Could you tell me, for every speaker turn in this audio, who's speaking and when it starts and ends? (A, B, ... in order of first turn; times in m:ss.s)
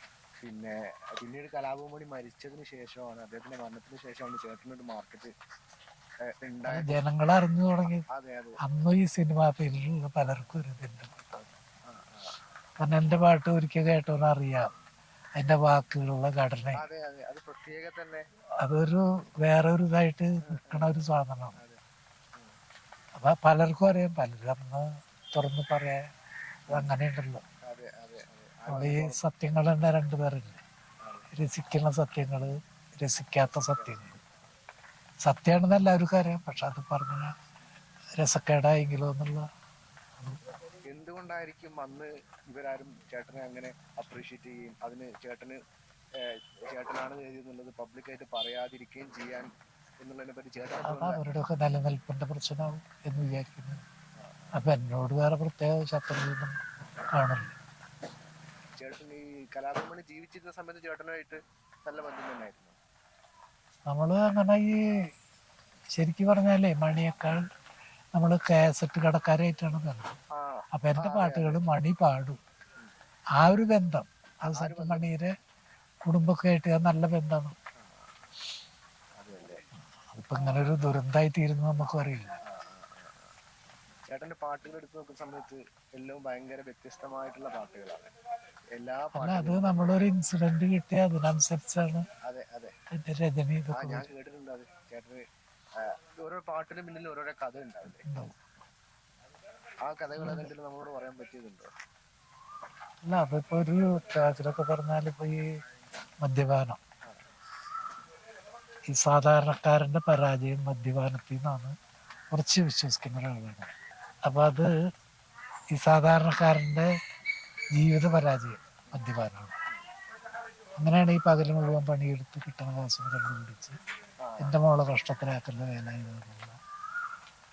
0:00.4-0:05.3 A
0:06.3-0:07.0 A
0:06.7-0:08.0 B
0:08.1-0:08.6 A
0:08.6-0:11.4 B
0:11.9-0:12.4 A
0:12.8-0:14.7 B
0:15.4-0:16.8 B
0:16.8-0:18.2 A
0:18.6-0:21.6 B
0:20.5-0:21.0 A
0:23.2-0:26.0 B
0:26.7-0:27.4 B
0:27.7-0:29.2 A
0:28.7-0:30.6 B
0:31.0-0:31.3 A
0:31.3-0:34.2 B
0:33.8-0:34.0 A
0:35.2-0:37.3 B
0:38.2-0:39.4 B
0:40.9-0:45.6 A
0:46.7-0:49.5 A
0:50.0-0:51.2 A
0:50.8-0:53.8 B
0:54.2-0:54.6 A
0:54.5-0:56.6 B
0:57.2-0:57.5 B
0:58.8-1:02.7 A
1:03.9-1:04.7 B
1:06.0-1:07.4 B
1:08.2-1:10.2 B
1:10.4-1:11.6 A
1:10.8-1:12.4 B
1:13.4-1:15.3 B
1:14.6-1:15.1 A
1:16.1-1:17.6 B
1:17.8-1:18.1 A
1:19.2-1:19.6 A
1:20.1-1:22.3 B
1:22.5-1:23.3 A
1:24.1-1:28.1 A
1:28.8-1:30.0 A
1:29.2-1:32.0 B
1:32.2-1:32.7 A
1:32.9-1:34.1 B
1:33.7-1:35.2 A
1:35.9-1:38.1 A
1:38.0-1:38.3 B
1:39.8-1:41.7 A
1:40.2-1:40.5 B
1:43.0-1:45.4 B
1:46.2-1:46.8 B
1:47.1-1:47.4 A
1:48.9-1:51.7 B
1:52.3-1:53.7 B
1:54.3-1:54.7 B
1:55.7-1:56.9 B
1:57.8-1:59.5 B
2:00.8-2:03.8 B
2:04.2-2:04.5 A
2:04.4-2:06.6 B